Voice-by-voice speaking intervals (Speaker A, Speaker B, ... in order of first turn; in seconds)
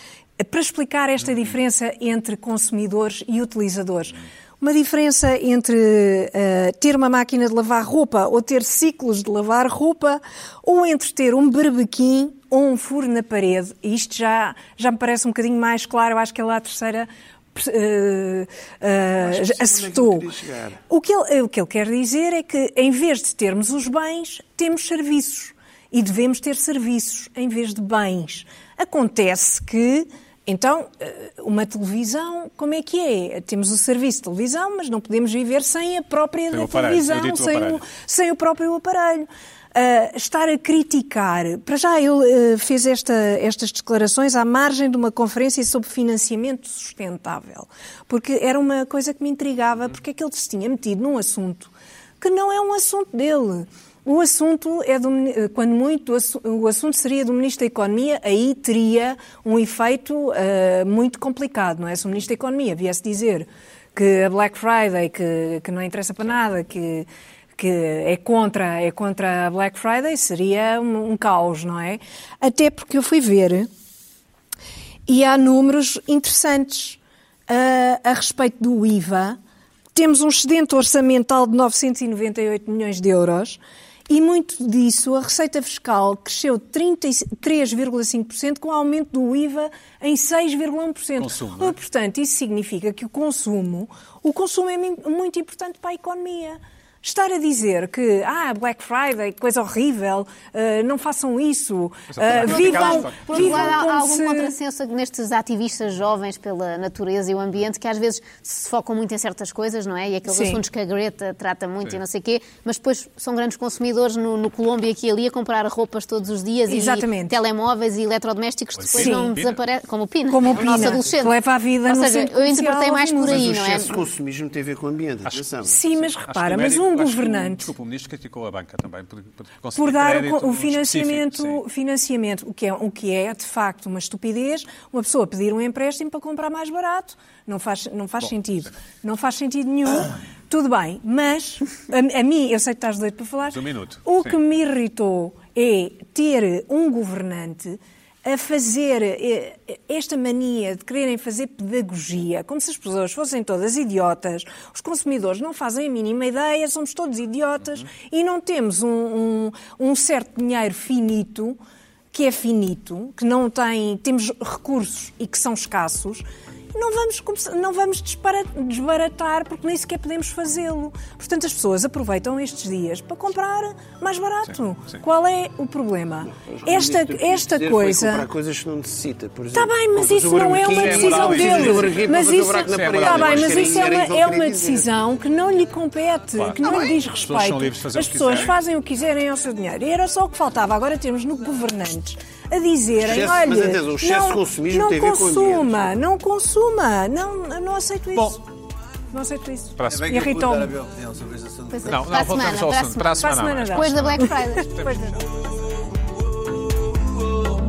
Speaker A: 0.4-20.3, 20.9-73.7, 75.1-79.4, 80.0-104.5, 110.3-110.6, 116.7-117.4, 118.9-119.4, 120.3-123.8, 125.6-127.7, 129.8-161.6, 162.1-178.3, 179.5-198.4, 199.1-200.7, 203.2-205.2
Speaker B: 19.2-20.8, 123.3-125.8, 176.3-184.9, 186.6-187.0, 193.0-196.0
Speaker C: 36.5-37.9, 91.2-91.8, 102.1-103.8, 118.8-119.6, 126.2-131.6, 138.2-138.7, 143.5-144.4, 174.5-175.0, 180.6-183.9, 186.4-188.5, 199.8-200.1, 201.8-205.2
Speaker D: 102.3-124.0, 201.7-205.0
Speaker E: 181.1-181.9, 199.9-202.4, 206.4-207.4